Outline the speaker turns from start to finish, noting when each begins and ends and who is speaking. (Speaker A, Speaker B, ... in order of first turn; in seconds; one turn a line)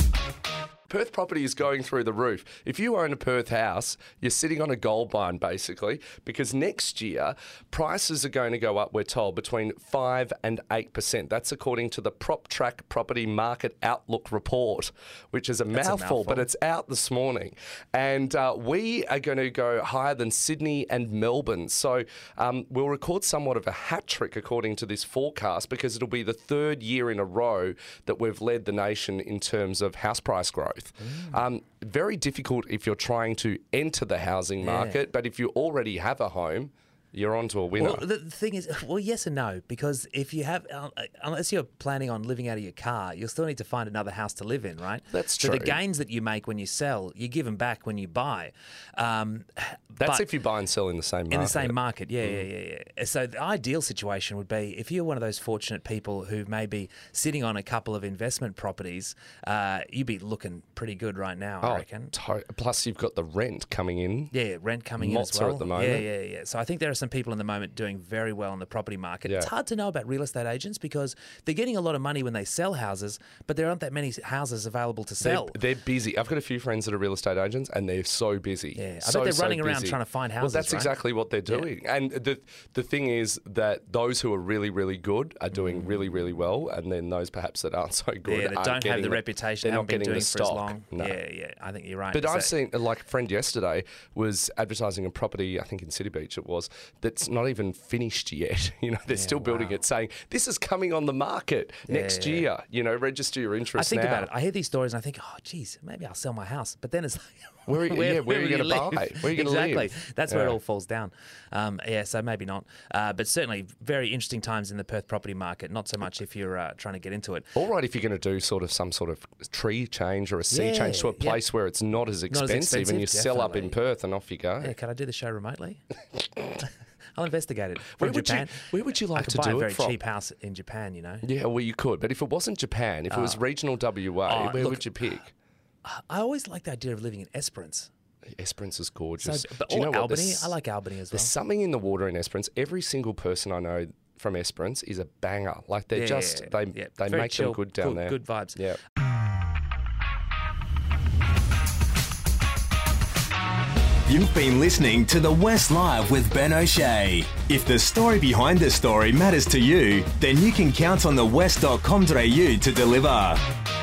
Speaker A: 0.9-38.0
Speaker B: 15.7-16.5
Speaker B: 34.6-35.0
Speaker B: 37.8-50.2
Speaker A: 45.1-45.8
Speaker A: 50.0-52.5
Speaker B: 51.3-62.1
Speaker A: 61.6-64.3
Speaker B: 64.3-75.6
Speaker A: 65.0-66.1
Speaker A: 69.2-69.5
Speaker A: 75.2-91.2
Speaker B: 78.8-81.7
Speaker B: 85.5-85.8
Speaker B: 88.2-92.5
Speaker A: 92.1-104.3
Speaker B: 99.1-99.8
Speaker B: 101.9-102.5
Speaker B: 103.7-117.5
Speaker A: 107.7-110.6
Speaker A: 117.5-124.7
Speaker B: 120.5-121.4
Speaker B: 122.3-123.8
Speaker B: 124.6-125.8
Speaker B: 126.5-131.2
Speaker A: 127.9-130.0
Speaker A: 131.2-135.3
Speaker B: 133.1-133.4
Speaker B: 134.2-135.1
Speaker B: 135.8-137.9
Speaker A: 138.3-140.6
Speaker B: 139.2-141.3
Speaker A: 141.1-148.8
Speaker B: 145.9-148.6
Speaker C: 154.0-163.4